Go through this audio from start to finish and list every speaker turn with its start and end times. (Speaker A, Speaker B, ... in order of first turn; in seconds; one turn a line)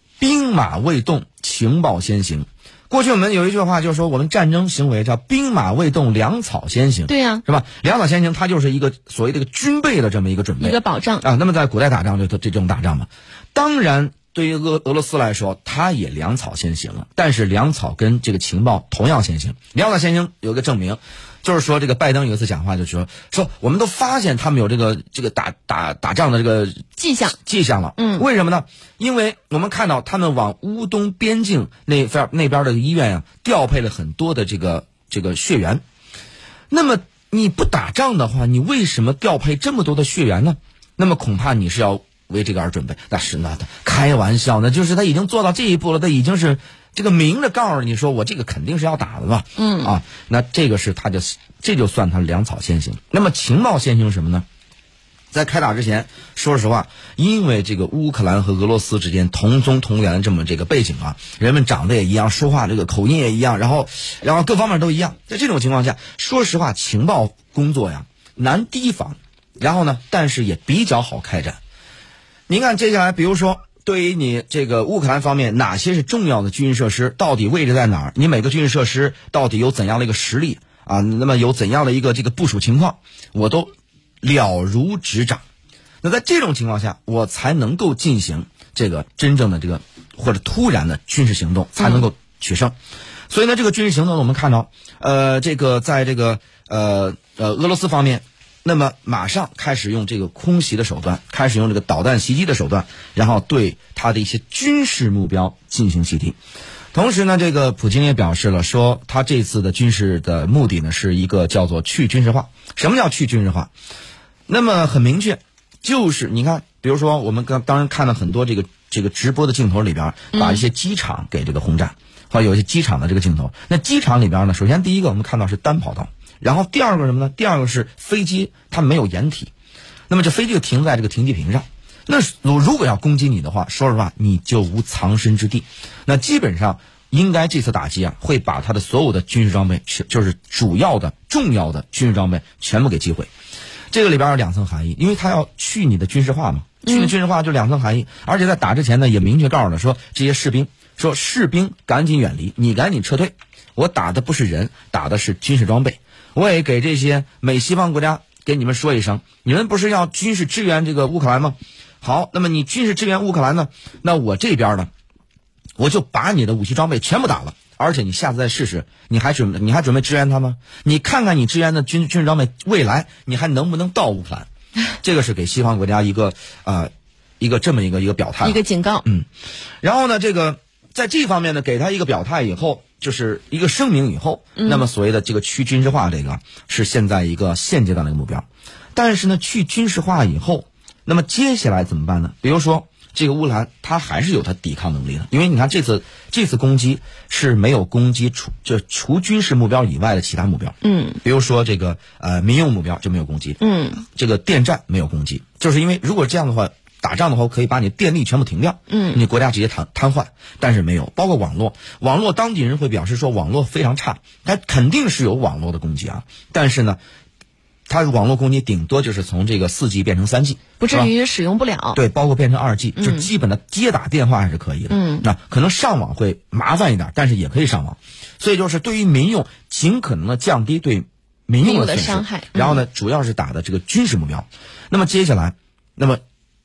Speaker A: 0.2-35.8
Speaker B: 7.1-7.4
Speaker B: 10.6-11.2
Speaker B: 27.0-27.3
Speaker B: 28.0-28.2
Speaker A: 36.7-54.4
Speaker B: 49.5-49.9
Speaker A: 55.3-71.6
Speaker A: 72.5-83.7
Speaker A: 84.2-85.4
Speaker A: 86.0-92.7
Speaker A: 93.3-106.3
Speaker A: 106.9-113.7
Speaker A: 114.5-129.5
Speaker B: 120.3-120.6
Speaker A: 130.1-143.3
Speaker A: 143.9-164.9
Speaker B: 146.8-147.1
Speaker A: 165.8-174.5
Speaker A: 175.0-179.2
Speaker B: 178.4-179.0
Speaker A: 179.8-217.0
Speaker B: 184.6-184.8
Speaker B: 200.8-201.2
Speaker B: 203.6-204.0
Speaker B: 208.9-209.2
Speaker A: 217.9-221.1
Speaker B: 220.8-222.0
Speaker A: 221.9-236.2
Speaker B: 222.9-223.3
Speaker B: 224.9-225.2
Speaker B: 231.6-232.8